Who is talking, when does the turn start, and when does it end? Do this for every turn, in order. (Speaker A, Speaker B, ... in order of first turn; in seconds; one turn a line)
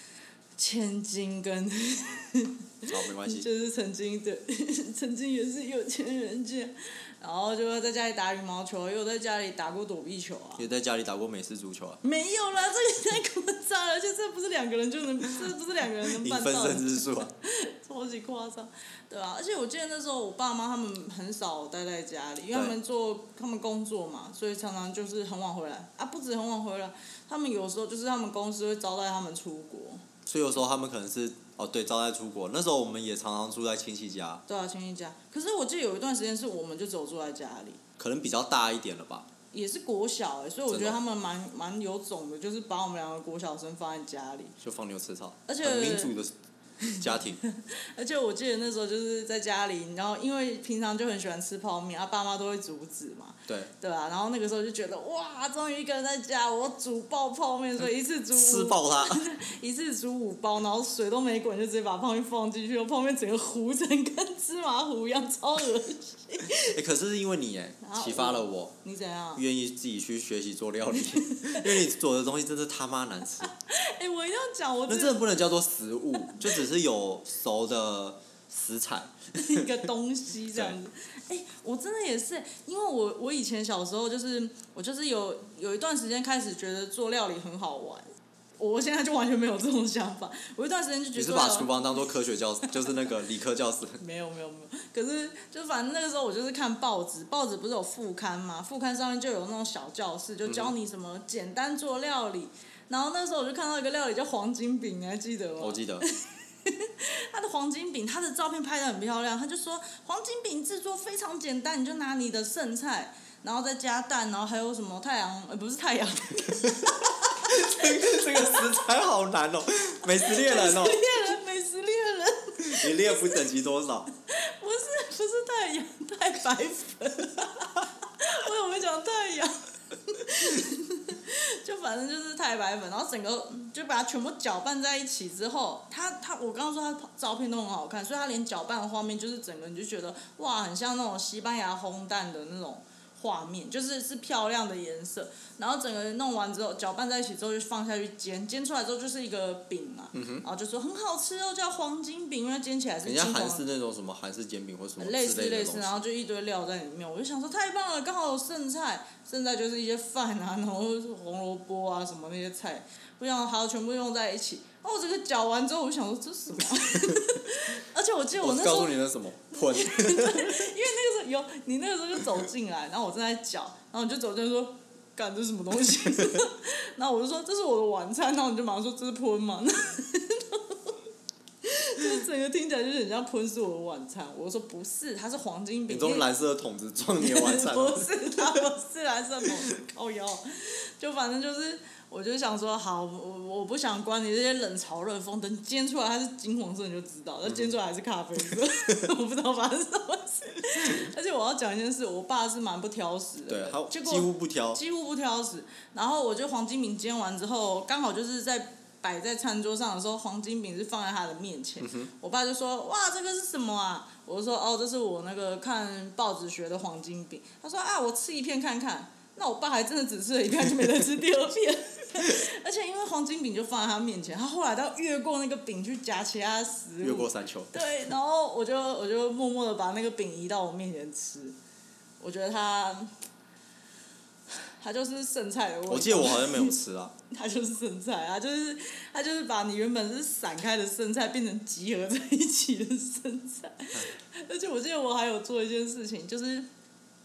Speaker A: 0.6-10.6
Speaker B: 2.9-3.5
Speaker B: 10.6-12.0
Speaker A: 12.0-30.0
Speaker B: 16.0-17.3
Speaker B: 30.2-34.4
Speaker A: 34.5-37.8
Speaker B: 38.0-39.3
Speaker A: 39.5-44.5
Speaker B: 40.7-41.0
Speaker B: 44.6-46.3
Speaker A: 45.5-46.1
Speaker A: 46.8-66.8
Speaker B: 46.9-47.4
Speaker B: 58.3-59.2
Speaker B: 66.7-68.7
Speaker A: 67.8-69.4
Speaker B: 69.3-73.5
Speaker A: 70.9-71.8
Speaker A: 73.5-75.2
Speaker B: 74.9-79.8
Speaker A: 79.4-88.1
Speaker A: 88.6-92.0
Speaker B: 91.1-94.0
Speaker A: 94.0-118.7
Speaker B: 100.5-100.7
Speaker B: 105.6-106.0
Speaker B: 117.4-121.2
Speaker A: 120.2-123.4
Speaker B: 122.6-124.1
Speaker A: 124.2-153.6
Speaker B: 150.1-150.4
Speaker B: 153.0-156.0
Speaker A: 155.0-168.9
Speaker B: 168.4-170.7
Speaker A: 169.5-180.9
Speaker A: 181.6-186.3
Speaker B: 185.9-188.6
Speaker A: 187.2-231.6
Speaker B: 203.5-204.8
Speaker B: 211.8-212.1
Speaker B: 227.0-227.9
Speaker A: 232.2-233.1
Speaker A: 234.8-236.8
Speaker B: 235.9-237.1
Speaker A: 237.3-246.7